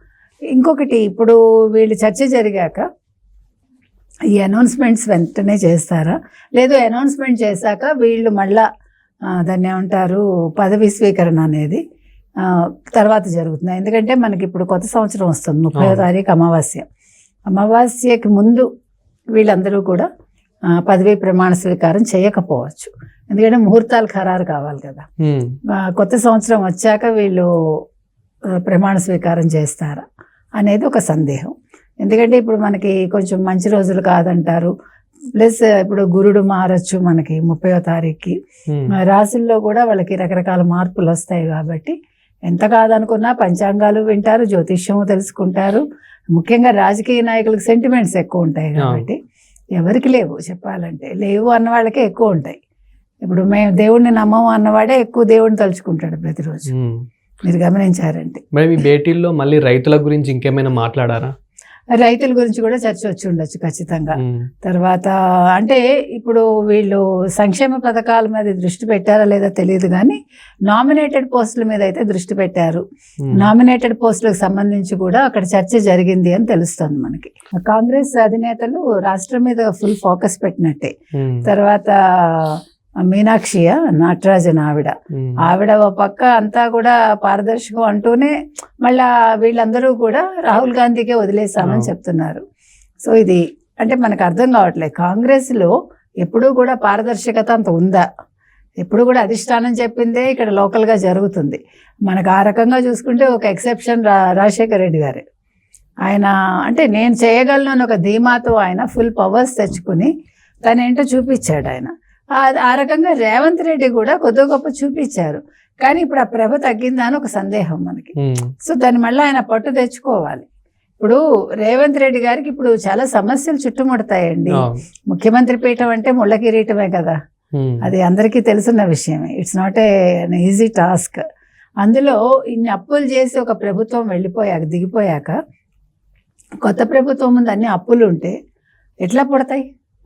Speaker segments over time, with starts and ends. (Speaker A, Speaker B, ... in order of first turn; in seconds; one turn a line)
Speaker A: 0.5-2.8
Speaker A: 4.4-8.7
Speaker A: 9.4-11.8
Speaker A: 12.4-16.9
Speaker B: 15.8-16.0
Speaker A: 17.5-18.7
Speaker A: 19.4-20.1
Speaker A: 20.9-25.1
Speaker B: 25.2-25.5
Speaker A: 25.8-27.5
Speaker A: 28.7-30.0
Speaker A: 30.6-31.5
Speaker A: 32.0-34.7
Speaker A: 35.4-38.4
Speaker A: 39.0-42.0
Speaker A: 42.5-45.8
Speaker A: 46.3-49.2
Speaker B: 48.8-49.0
Speaker A: 49.8-52.6
Speaker A: 53.2-56.7
Speaker B: 56.7-57.0
Speaker A: 57.4-58.4
Speaker B: 58.5-61.3
Speaker A: 62.0-70.2
Speaker B: 64.2-64.5
Speaker A: 70.7-80.9
Speaker B: 73.2-73.5
Speaker B: 81.2-81.5
Speaker A: 81.5-92.4
Speaker B: 85.1-85.4
Speaker B: 91.6-91.9
Speaker A: 93.0-95.7
Speaker A: 96.2-98.0
Speaker A: 98.8-105.2
Speaker A: 106.0-110.1
Speaker A: 110.7-120.5
Speaker B: 118.2-118.5
Speaker A: 121.0-127.2
Speaker B: 127.5-127.9
Speaker A: 127.8-131.2
Speaker A: 131.8-135.3
Speaker A: 136.6-138.3
Speaker A: 139.0-139.7